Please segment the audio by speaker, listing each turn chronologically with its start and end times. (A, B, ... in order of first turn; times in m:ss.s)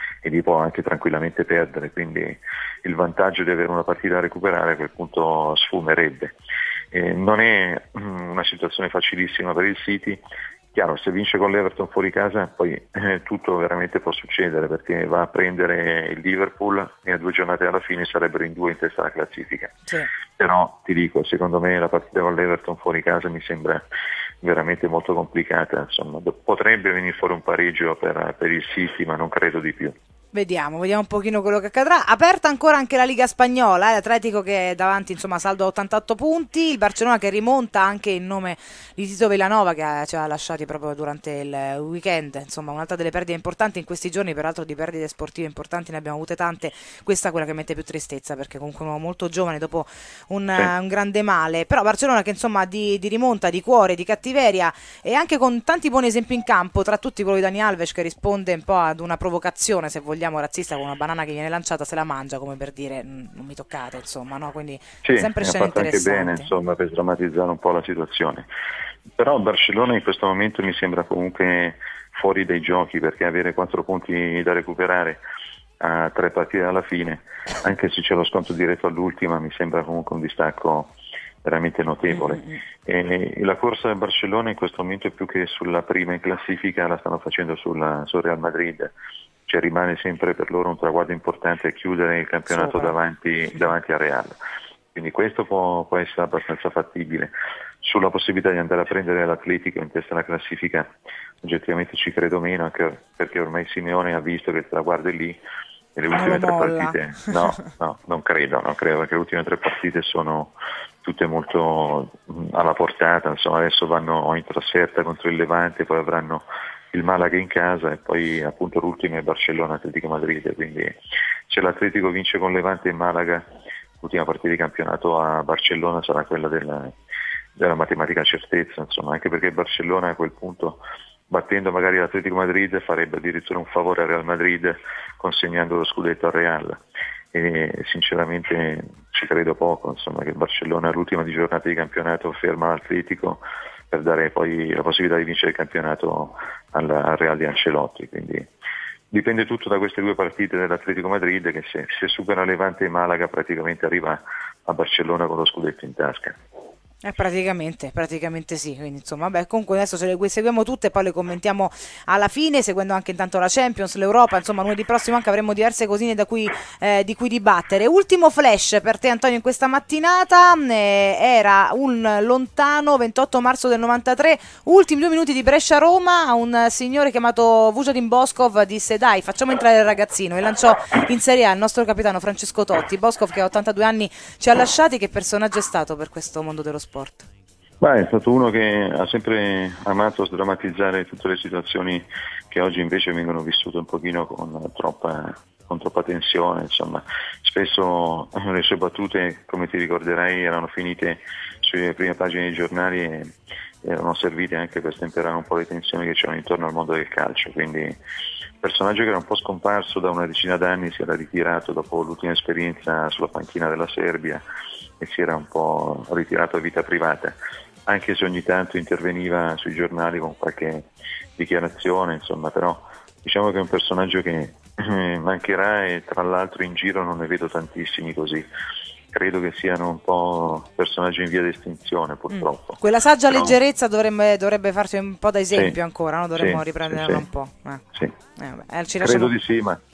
0:00.2-0:06.4 A
0:06.9-0:10.2 A
0:10.7-0:19.8 A
0:20.4-0:23.8 A
0:24.4-0:30.0 A
0:30.3-1:06.5 B
1:05.0-1:08.5 A
1:09.2-1:15.2 A
1:15.8-1:28.9 A
1:22.3-1:22.6 B
1:29.5-1:34.4 A
1:32.5-1:32.9 B
1:34.9-1:45.4 A
1:45.9-2:01.0 A
1:46.1-1:47.6 B
2:01.5-2:03.5 A
2:04.0-2:06.9 A
2:07.6-2:16.8 A
2:17.3-2:28.5 A
2:29.1-2:36.4 A
2:37.0-3:07.3 B
3:07.8-3:23.3 A
3:23.8-3:28.0 A
3:28.6-3:34.4 A
3:35.0-3:37.4 A
3:37.9-3:48.4 A
3:49.1-3:53.6 A
3:52.4-3:57.8 B
3:56.4-3:57.2 A
3:58.4-3:59.3 B
3:59.0-3:59.8 A